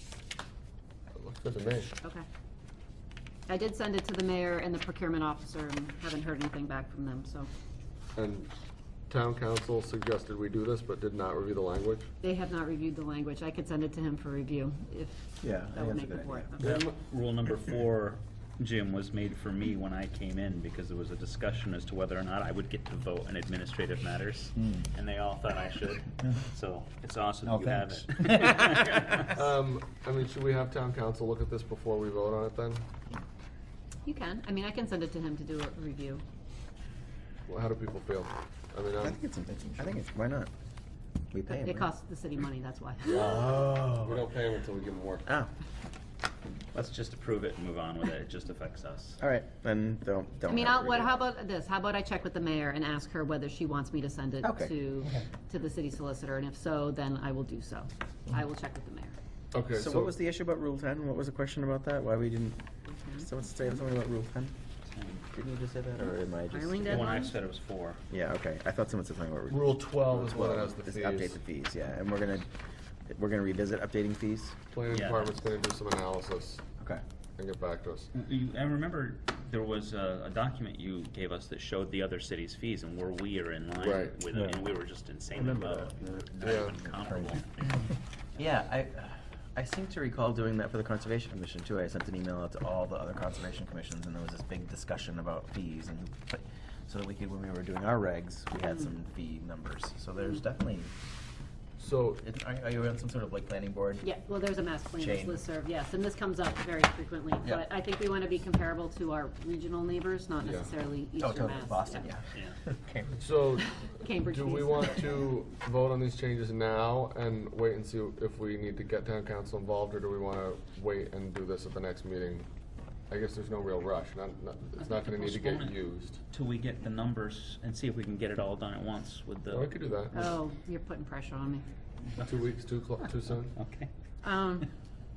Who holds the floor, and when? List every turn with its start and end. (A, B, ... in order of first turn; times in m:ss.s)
0:01.1-0:02.0 A
0:03.5-0:07.5 B
0:08.2-0:08.5 A
0:09.1-0:12.1 A
0:12.2-0:16.7 B
0:15.4-0:16.5 C
0:16.6-0:29.4 D
0:16.6-0:17.0 A
0:27.5-0:29.0 C
0:29.2-0:32.8 A
0:34.0-0:36.2 B
0:37.5-0:39.2 A
0:39.0-0:40.5 C
0:41.3-0:41.9 C
0:41.5-0:43.3 B
0:43.1-0:45.3 A
0:43.1-0:44.2 C
0:46.7-0:49.2 D
0:49.2-0:51.1 C
0:50.5-0:59.2 B
0:54.4-0:54.7 C
0:59.5-1:00.2 A
0:59.7-1:02.6 C
1:02.9-1:03.3 B
1:03.2-1:04.5 C
1:04.9-1:05.3 D
1:05.3-1:07.3 C
1:06.5-1:07.4 B
1:06.9-1:08.0 D
1:08.1-1:12.5 C
1:09.5-1:11.4 A
1:13.1-1:14.6 C
1:14.7-1:16.6 A
1:14.9-1:15.4 D
1:17.4-1:18.1 A
1:18.1-1:27.9 D
1:23.8-1:24.2 A
1:24.3-1:24.6 C
1:25.4-1:25.9 C
1:26.4-1:26.8 A
1:26.9-1:27.4 C
1:28.4-1:40.9 C
1:41.8-1:42.2 A
1:42.2-1:44.1 C
1:44.0-1:52.1 B
1:45.0-1:45.4 C
1:50.4-1:50.7 A
1:51.2-1:53.7 C
1:53.2-2:02.5 A
1:54.0-1:55.2 B
2:03.1-2:06.2 A
2:04.8-2:05.8 D
2:06.3-2:09.8 D
2:09.5-2:10.4 A
2:10.1-2:11.6 B
2:12.2-2:13.6 A
2:13.5-2:13.9 D
2:14.2-2:14.7 B